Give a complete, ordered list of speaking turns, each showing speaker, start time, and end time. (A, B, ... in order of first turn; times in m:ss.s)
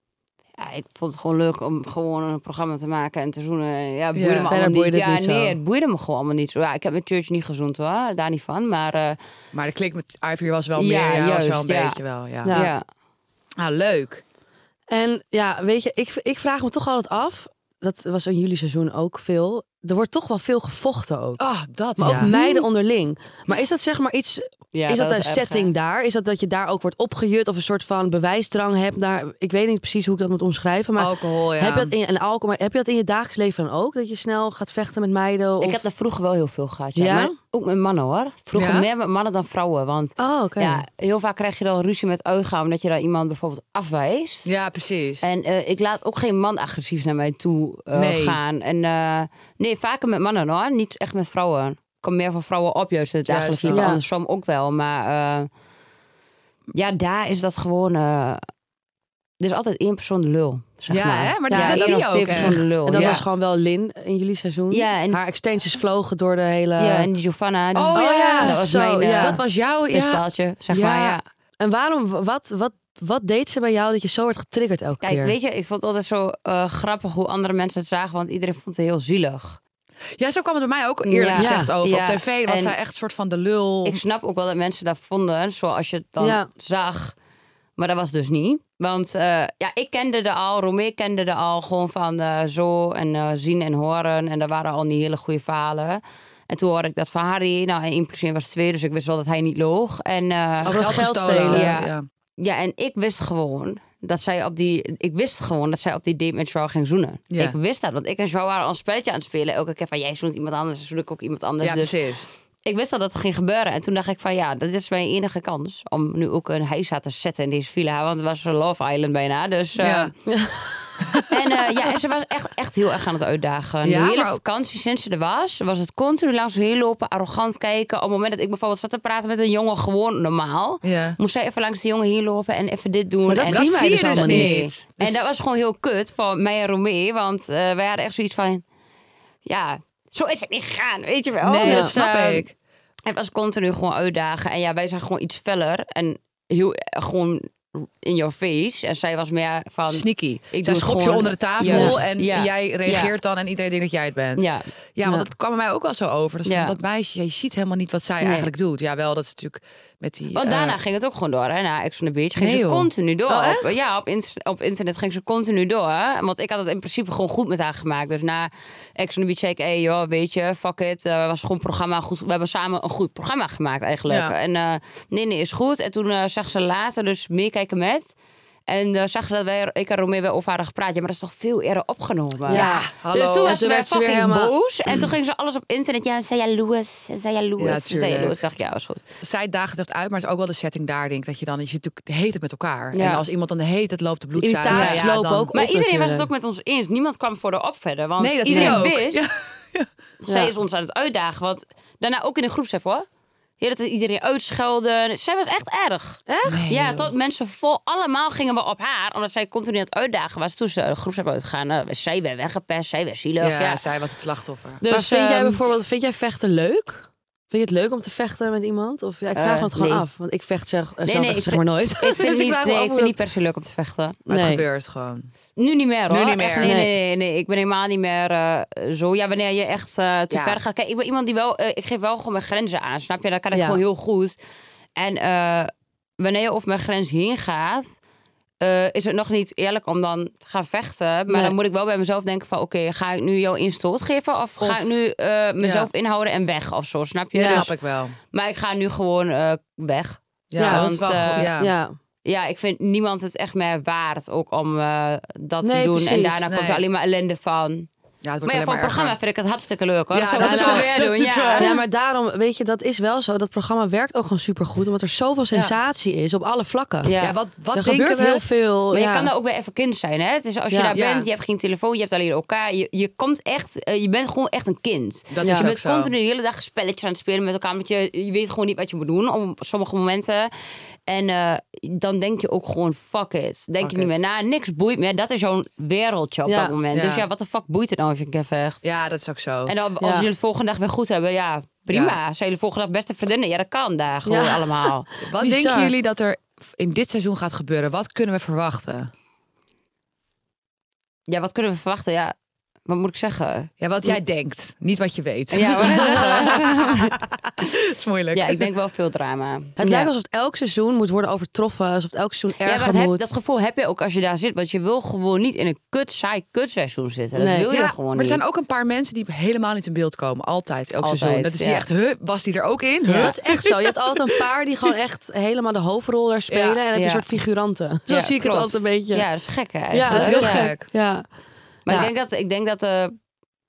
0:00.6-0:09.2 A
0:04.1-0:04.5 B
0:04.5-0:05.6 C
0:09.5-0:12.6 B
0:10.8-0:12.0 A
0:12.4-0:12.7 C
0:12.5-0:12.8 A
0:13.6-0:14.2 B
0:14.9-0:21.4 C
0:21.4-0:22.3 B
0:22.0-0:35.8 C
0:22.1-0:22.6 A
0:24.7-0:25.7 A
0:31.0-0:31.9 B
0:35.6-0:44.5 A
0:37.0-0:37.4 C
0:38.5-0:38.9 B
0:40.2-0:40.8 C
0:44.4-0:45.3 B
0:45.2-0:55.5 A
0:47.9-0:48.4 B
0:53.3-0:54.0 B
0:53.7-0:54.0 C
0:56.8-0:58.4 A
0:59.4-1:03.2 A
1:00.9-1:03.2 B
1:01.5-1:07.1 C
1:04.7-1:05.2 A
1:06.8-1:09.4 A
1:07.8-1:08.6 B
1:08.0-1:09.4 C
1:09.2-1:11.2 B
1:09.9-1:11.2 A
1:11.6-1:15.4 C
1:15.0-1:19.6 A
1:20.2-1:24.0 B
1:21.1-1:22.7 A
1:21.4-1:21.7 C
1:23.8-1:27.1 A
1:26.2-1:26.5 C
1:27.8-1:40.8 A
1:40.6-1:42.0 B
1:40.6-1:41.7 C
1:41.5-1:51.9 A
1:47.3-1:47.6 B
1:51.6-1:52.3 B
1:52.7-2:00.1 A
1:59.8-2:00.1 B
2:00.3-2:00.9 C
2:01.0-2:01.3 B
2:01.3-2:18.6 A
2:03.8-2:04.4 B
2:10.8-2:11.2 B
2:13.3-2:14.6 C
2:13.5-2:15.3 B
2:19.5-2:22.4 A
2:21.4-2:22.5 B
2:21.6-2:22.4 C
2:23.1-2:33.1 A
2:29.9-2:40.8 B
2:31.6-2:32.0 C
2:34.4-2:34.7 A
2:36.5-2:36.8 A
2:38.2-2:38.5 A
2:40.4-2:58.1 A
2:42.4-2:42.9 B
2:43.3-2:43.7 C
2:54.1-2:54.3 B
2:58.7-3:09.0 A
3:02.5-3:03.6 B
3:02.5-3:04.5 C
3:07.6-3:08.4 B
3:09.2-3:15.5 B
3:12.9-3:13.2 A
3:14.4-3:16.3 C
3:14.7-3:19.3 A
3:18.2-3:19.9 B
3:18.5-3:18.8 C
3:20.2-3:23.0 A
3:20.3-3:20.5 C
3:23.6-3:33.8 A
3:26.3-3:26.7 C
3:26.4-3:27.1 B
3:33.4-3:34.9 B
3:34.8-3:35.5 A
3:34.8-3:43.2 C
3:39.4-3:40.0 A
3:41.1-3:44.2 A
3:44.3-3:45.3 B
3:44.3-3:44.6 C
3:45.6-3:54.4 A
3:46.1-3:46.8 B
3:46.6-3:46.9 C
3:50.3-3:50.6 B
3:53.5-3:53.8 C
3:55.0-3:58.0 A
3:58.6-4:07.7 A
4:01.3-4:01.6 C
4:04.6-4:04.9 B
4:05.6-4:05.9 B
4:07.4-4:07.7 C
4:07.4-4:08.2 B
4:08.3-4:11.5 A
4:10.5-4:11.7 B
4:10.6-4:12.0 C
4:12.3-4:17.9 A
4:15.6-4:16.4 C
4:16.5-4:16.8 B
4:18.2-4:19.2 B
4:18.5-4:21.7 A
4:20.1-4:21.8 B
4:20.4-4:21.0 C
4:21.6-4:27.1 C
4:27.0-4:27.4 A
4:27.2-4:28.4 B
4:27.7-4:29.3 C
4:28.9-4:40.5 A
4:30.7-4:31.0 C
4:30.9-4:31.3 B
4:35.3-4:36.1 B
4:35.4-4:35.7 C
4:41.1-4:48.8 A
4:43.8-4:44.2 B
4:46.5-4:46.8 C
4:46.9-4:47.3 B
4:48.8-4:49.7 B
4:49.7-4:55.1 A
4:50.0-4:50.3 C
4:51.9-4:52.2 B
4:54.3-4:55.9 C
4:55.3-4:59.1 B
5:01.3-5:02.3 A
5:02.9-5:04.2 A
5:03.8-5:08.7 B
5:05.5-5:07.2 A
5:08.3-5:10.1 A
5:09.8-5:13.3 C
5:12.6-5:18.4 A
5:17.4-5:17.7 C
5:17.7-5:24.4 B
5:21.0-5:21.8 A
5:23.1-5:29.2 C
5:26.5-5:26.8 B
5:26.9-5:27.3 A
5:28.1-5:30.7 A
5:29.9-5:31.2 C
5:30.1-5:30.9 B
5:31.9-5:33.1 A